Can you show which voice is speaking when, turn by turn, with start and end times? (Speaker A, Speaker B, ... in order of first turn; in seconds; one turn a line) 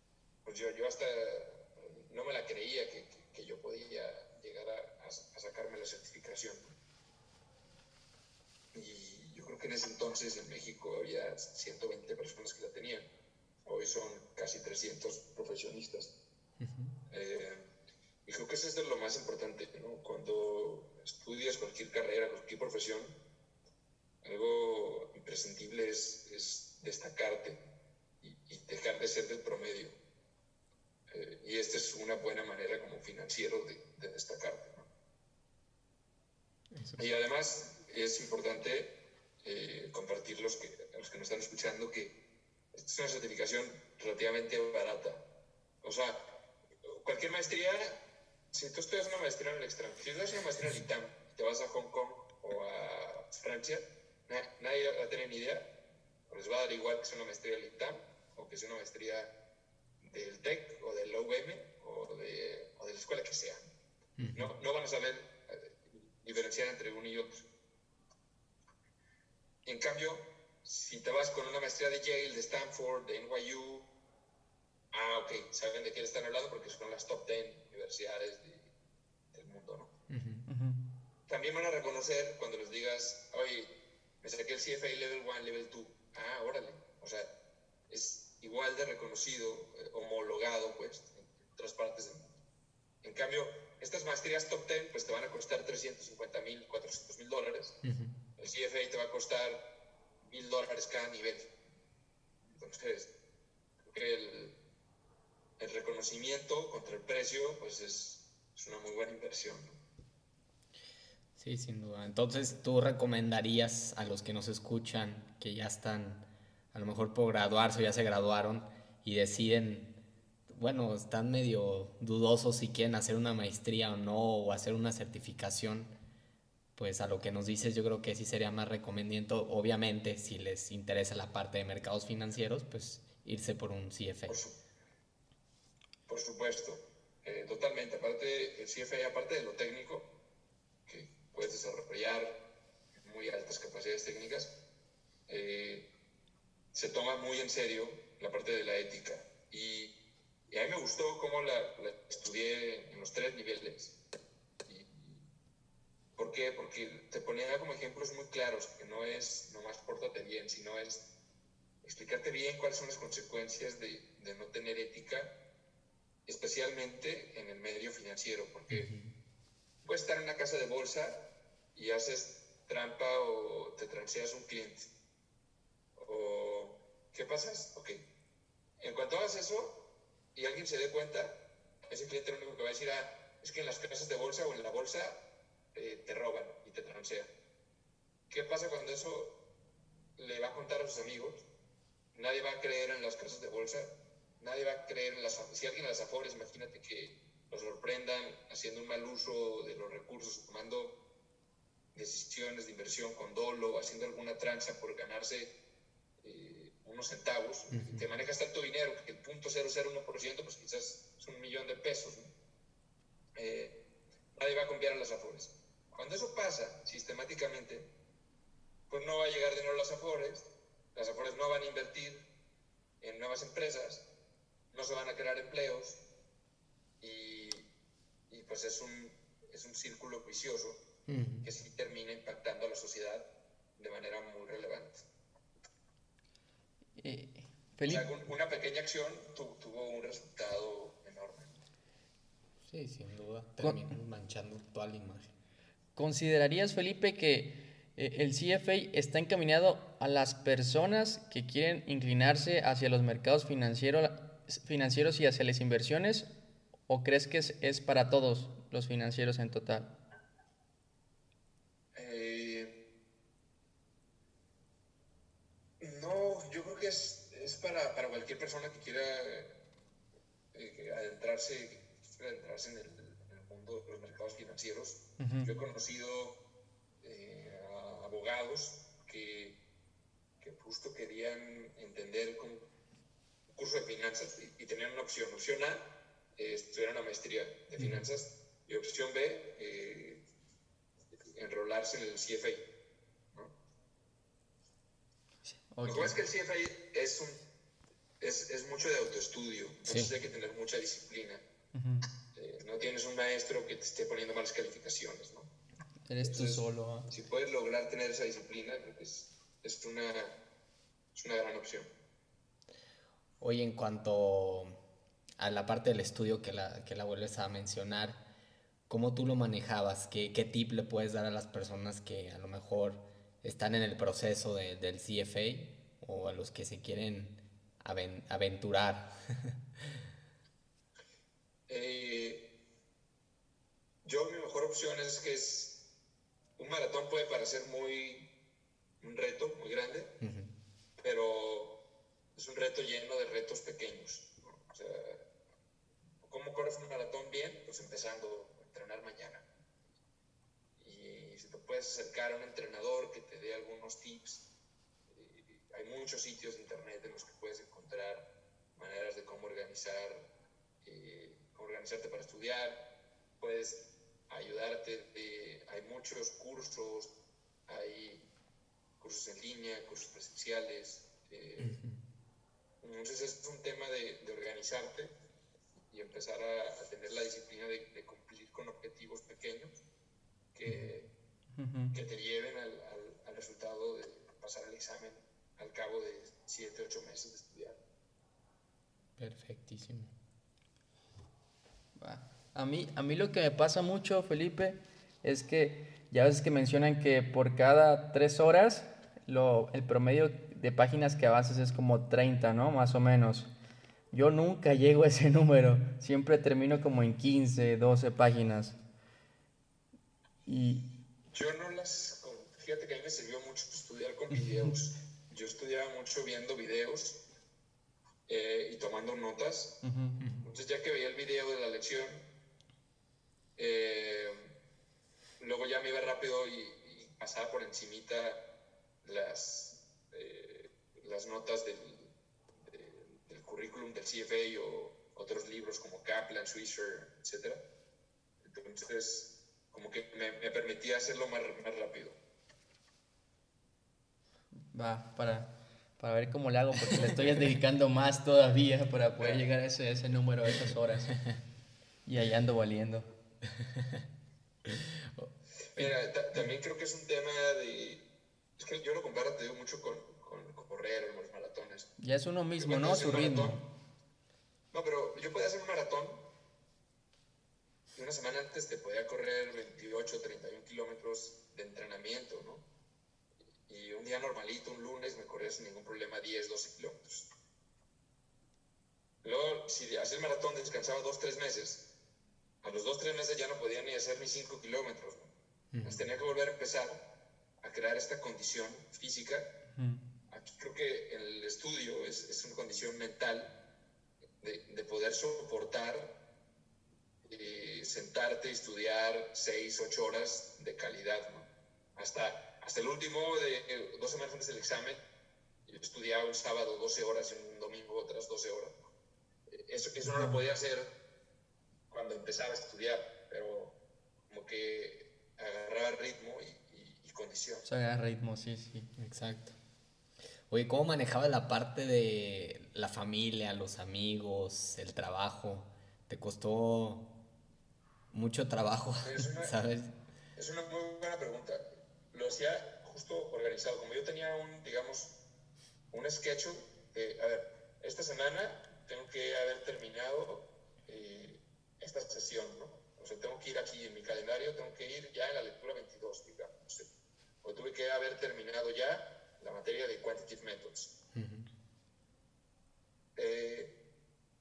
Speaker A: 0.5-6.8
Speaker A: 8.7-13.1
Speaker A: 13.7-16.2
Speaker B: 16.6-16.9
Speaker A: 17.1-17.7
Speaker A: 18.2-23.2
Speaker A: 24.2-27.6
Speaker A: 28.2-30.0
Speaker A: 31.1-34.9
Speaker B: 36.7-37.1
Speaker A: 37.0-42.2
Speaker A: 42.7-45.2
Speaker A: 45.8-46.3
Speaker A: 46.9-55.7
Speaker A: 56.3-59.3
Speaker A: 60.0-63.7
Speaker B: 64.2-64.5
Speaker A: 64.3-67.5
Speaker A: 69.7-73.9
Speaker A: 74.9-78.7
Speaker A: 79.3-79.9
Speaker B: 80.1-80.5
Speaker C: 80.5-80.8
Speaker A: 81.3-87.3
Speaker A: 87.9-92.4
Speaker A: 93.0-97.8
Speaker B: 97.8-98.1
Speaker A: 98.4-99.7
Speaker A: 100.2-101.5
Speaker A: 102.5-103.1
Speaker A: 103.8-104.6
Speaker A: 105.6-109.8
Speaker B: 111.4-119.9
Speaker B: 120.5-125.9
Speaker B: 126.8-134.4
Speaker A: 134.3-134.6
Speaker A: 136.1-140.1
Speaker A: 140.9-142.4
Speaker A: 143.0-144.6
Speaker A: 145.3-145.9
Speaker A: 146.7-150.0
Speaker A: 150.5-153.9
Speaker A: 154.7-155.3
Speaker A: 156.2-161.1
Speaker A: 161.8-165.4
Speaker A: 166.3-168.9
Speaker B: 168.7-169.1
Speaker A: 169.8-174.9
Speaker A: 176.0-178.1
Speaker A: 178.8-187.3
Speaker A: 188.3-189.4
Speaker A: 190.2-191.5
Speaker A: 192.1-201.0
Speaker A: 201.9-205.5
Speaker A: 206.2-212.3
Speaker B: 207.7-208.1
Speaker A: 213.4-213.8
Speaker A: 214.3-217.9
Speaker A: 218.9-222.3
Speaker A: 223.0-224.1
Speaker A: 224.7-226.0
Speaker A: 227.0-227.7
Speaker A: 228.3-230.8
Speaker B: 231.1-231.5
Speaker A: 231.4-235.0
Speaker C: 237.0-238.1
Speaker A: 237.9-241.6
Speaker B: 242.7-245.3
Speaker C: 243.6-243.9
Speaker C: 246.0-256.3
Speaker C: 256.9-259.9
Speaker A: 261.9-262.8
Speaker A: 265.8-269.6
Speaker A: 270.5-276.4
Speaker C: 275.2-275.5
Speaker A: 277.0-279.6
Speaker A: 280.4-282.7
Speaker A: 283.6-290.2
Speaker B: 287.8-288.1
Speaker A: 291.3-292.7
Speaker C: 295.4-296.1
Speaker A: 295.8-297.5
Speaker A: 298.2-301.4
Speaker B: 299.9-300.1
Speaker C: 301.7-302.1
Speaker A: 302.3-305.5
Speaker C: 306.1-307.1
Speaker A: 306.2-310.4
Speaker A: 311.1-311.9
Speaker B: 313.4-314.8
Speaker B: 315.4-318.2
Speaker B: 318.9-329.6
Speaker A: 331.7-332.5
Speaker A: 334.0-335.8
Speaker A: 336.6-338.3
Speaker A: 339.0-340.2
Speaker B: 340.2-340.5
Speaker A: 341.0-341.8
Speaker A: 342.4-345.3
Speaker A: 346.2-349.5
Speaker A: 350.8-354.5
Speaker A: 355.1-360.3
Speaker A: 360.8-362.8
Speaker A: 363.4-367.1
Speaker A: 367.7-368.3
Speaker A: 369.0-371.8
Speaker B: 371.6-372.0
Speaker A: 372.8-375.1
Speaker A: 375.9-379.8
Speaker A: 380.5-381.1
Speaker C: 381.6-381.9
Speaker A: 381.9-387.8
Speaker B: 389.2-390.1
Speaker C: 392.0-403.5
Speaker C: 404.1-408.8
Speaker C: 410.5-410.8
Speaker A: 411.3-417.2
Speaker A: 418.3-419.8
Speaker C: 419.8-420.2
Speaker A: 420.4-422.3
Speaker A: 423.6-424.5
Speaker A: 425.4-428.4
Speaker A: 429.0-437.6
Speaker A: 438.4-442.2
Speaker C: 444.6-451.2
Speaker A: 449.2-449.5
Speaker C: 452.1-453.1
Speaker B: 453.6-454.0
Speaker B: 454.7-455.3
Speaker A: 455.7-458.1
Speaker A: 458.6-461.9
Speaker C: 462.0-463.6
Speaker A: 462.6-463.6
Speaker A: 464.7-466.2
Speaker A: 468.0-472.7
Speaker A: 473.7-477.3
Speaker A: 479.2-481.9
Speaker A: 482.6-487.0
Speaker B: 485.7-486.1
Speaker A: 487.6-489.6
Speaker C: 489.7-490.0
Speaker A: 490.3-493.5
Speaker A: 494.4-496.2
Speaker A: 497.2-505.0
Speaker A: 505.7-508.9
Speaker A: 509.5-510.9
Speaker C: 510.0-510.4
Speaker A: 511.9-513.8
Speaker A: 514.3-517.6
Speaker C: 517.6-518.9
Speaker B: 519.0-519.5
Speaker B: 520.5-527.1
Speaker B: 528.1-530.0
Speaker A: 529.0-529.5
Speaker A: 530.4-535.1
Speaker A: 535.9-546.9
Speaker A: 547.4-550.9
Speaker B: 551.1-551.5
Speaker A: 553.2-553.8